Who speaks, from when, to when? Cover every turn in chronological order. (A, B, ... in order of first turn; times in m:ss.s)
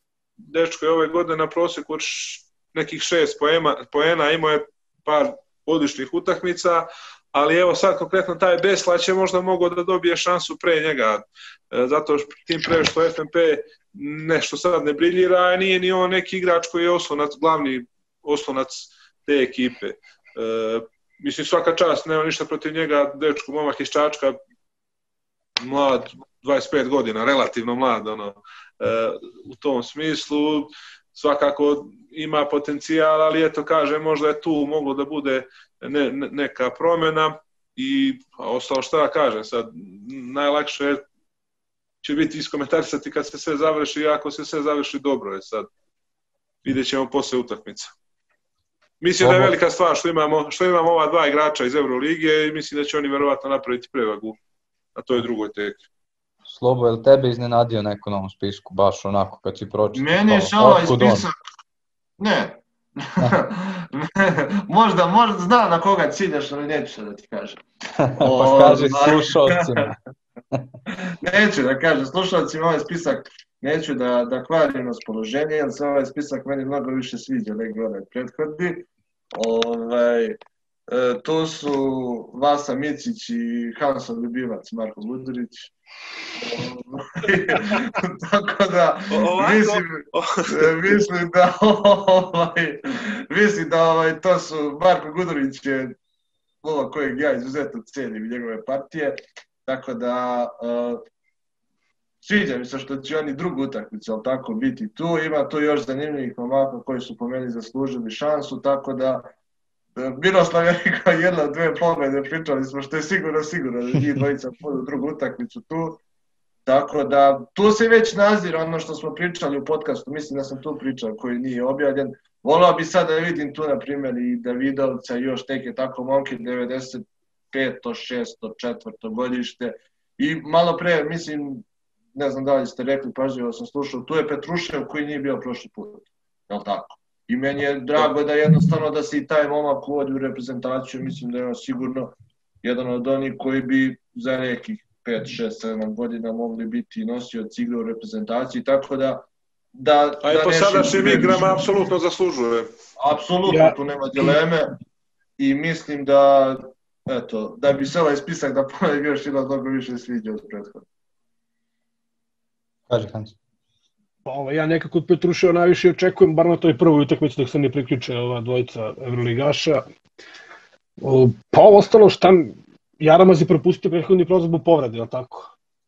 0:00.5-0:24.4 A
0:25.6-0:41.0 A
0:42.0-0:45.7 A
0:46.6-0:47.9 A
0:49.0-0:54.4 A
0:49.2-0:49.5 B
0:55.0-0:55.8 A
0:56.4-1:01.3 B
1:00.0-1:01.4 C
1:02.2-1:07.6 C
1:08.0-1:10.0 B
1:08.2-1:09.9 C
1:10.9-1:25.7 C
1:26.4-1:36.0 C
1:29.1-1:30.8 A
1:36.6-1:41.0 C
1:42.2-1:49.3 C
1:50.0-1:56.0 C
1:56.7-2:31.7 C
2:30.2-2:32.7 A
2:33.0-2:34.8 C
2:33.5-2:33.8 D
2:35.4-2:40.8 C
2:42.9-2:43.4 B
2:44.2-2:49.8 D
2:51.0-2:55.5 D